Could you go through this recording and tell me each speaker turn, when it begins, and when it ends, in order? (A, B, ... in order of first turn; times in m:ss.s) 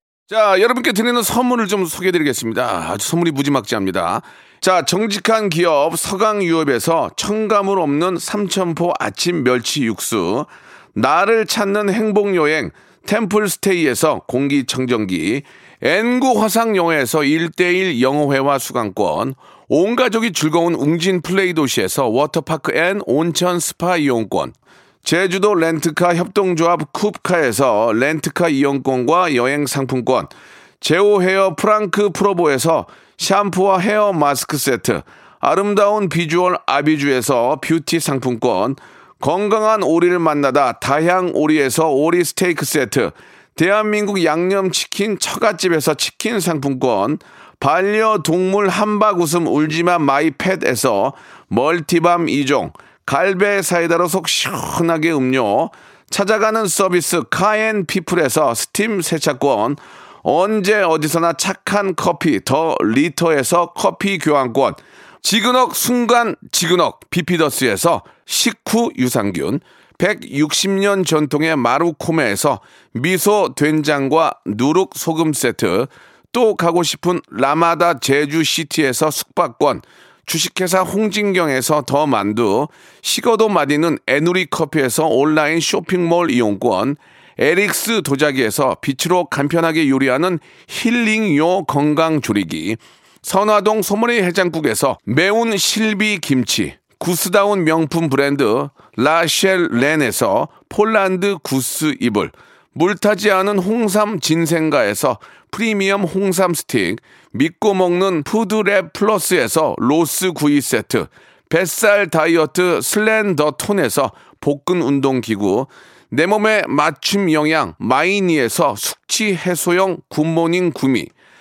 0:00.3-2:01.1 A